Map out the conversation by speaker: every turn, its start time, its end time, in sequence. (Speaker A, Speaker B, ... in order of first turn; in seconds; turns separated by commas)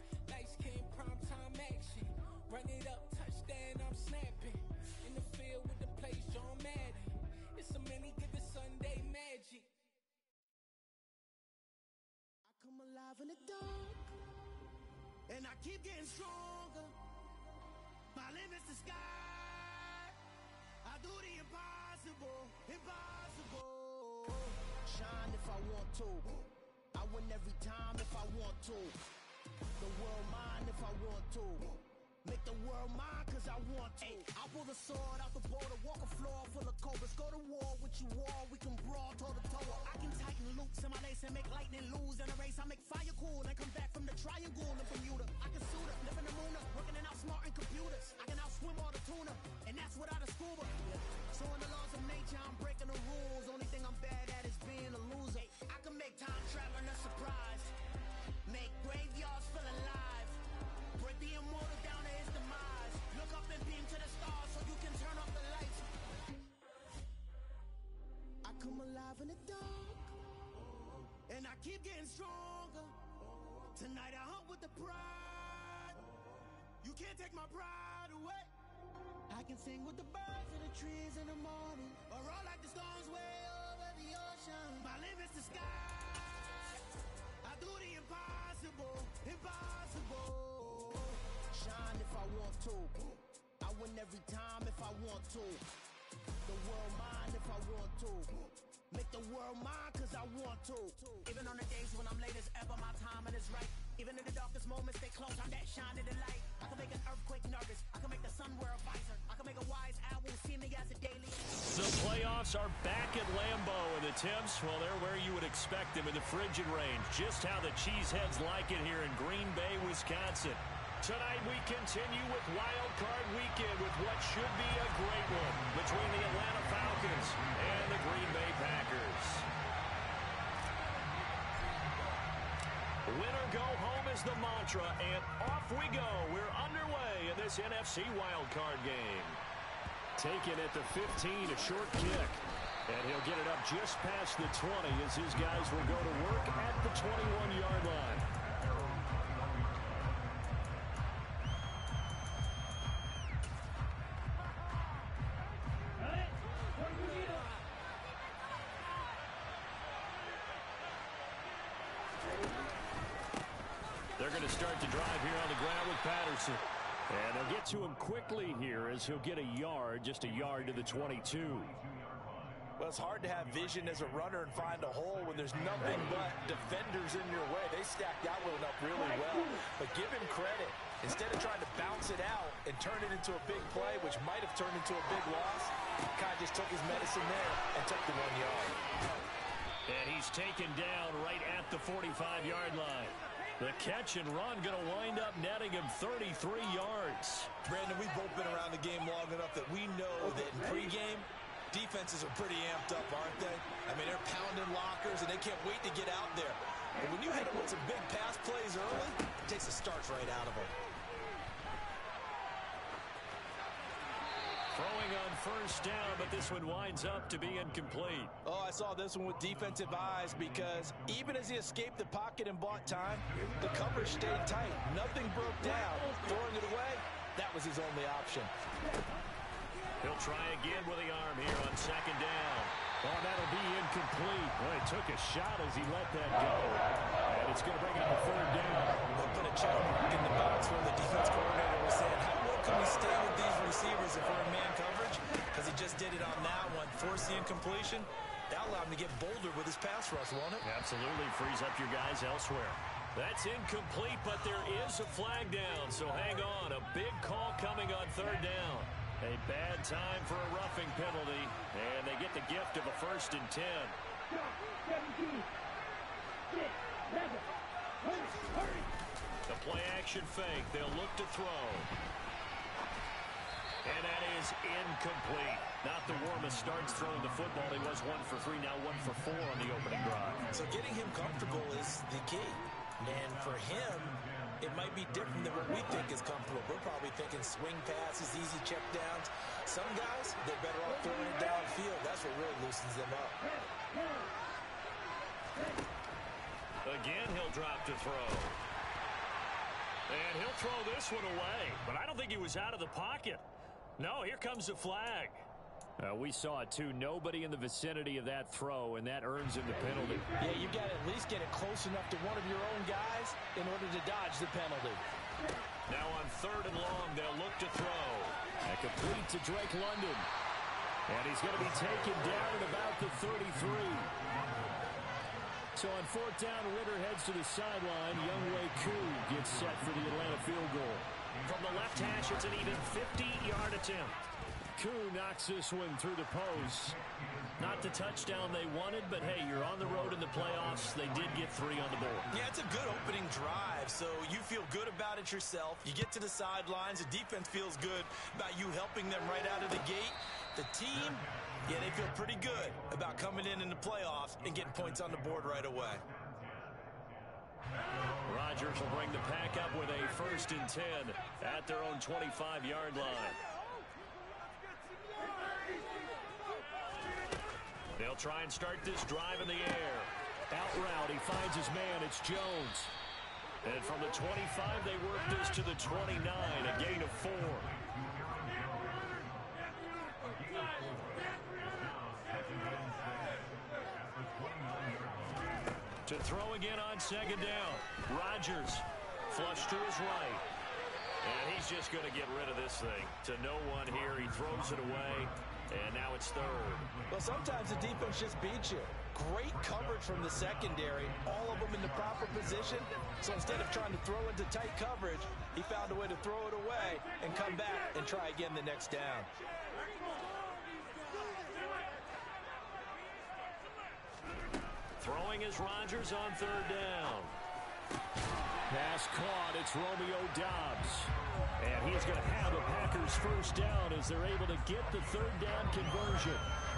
Speaker A: 0.2-9.7, Speaker B: 12.4-14.1, Speaker B: 15.3-16.9, Speaker B: 18.1-20.1, Speaker B: 20.8-29.0, Speaker B: 29.8-57.7, Speaker B: 58.4-60.4, Speaker B: 61.0-65.9, Speaker B: 68.4-70.1, Speaker B: 71.2-73.0, Speaker B: 73.7-76.0, Speaker B: 76.8-78.5, Speaker B: 79.3-86.7, Speaker B: 87.4-95.6, Speaker B: 96.4-111.5, Speaker C: 111.6-129.5, Speaker C: 133.0-139.4, Speaker C: 140.2-148.3, Speaker C: 164.2-171.7, Speaker D: 172.8-188.8, Speaker C: 189.9-197.5, Speaker D: 197.6-210.7, Speaker C: 214.7-218.3, Speaker D: 218.4-228.5, Speaker C: 230.0-239.0, Speaker D: 239.1-250.6, Speaker C: 250.6-264.0, Speaker C: 269.5-271.9, Speaker C: 273.8-280.5, Speaker D: 280.5-293.4, Speaker C: 296.8-298.6, Speaker C: 300.1-303.4, Speaker C: 304.0-305.4, Speaker C: 306.0-310.2, Speaker D: 310.4-315.0, Speaker C: 315.9-320.3, Speaker C: 321.1-324.1, Speaker C: 325.7-334.2, Speaker C: 334.8-337.0, Speaker C: 337.6-342.3, Speaker D: 342.3-356.0, Speaker C: 358.2-363.4, Speaker C: 367.9-372.9, Speaker C: 373.6-377.7, Speaker C: 386.1-390.4, Speaker C: 391.2-396.9, Speaker D: 397.1-409.3, Speaker C: 415.0-417.4, Speaker C: 418.7-426.4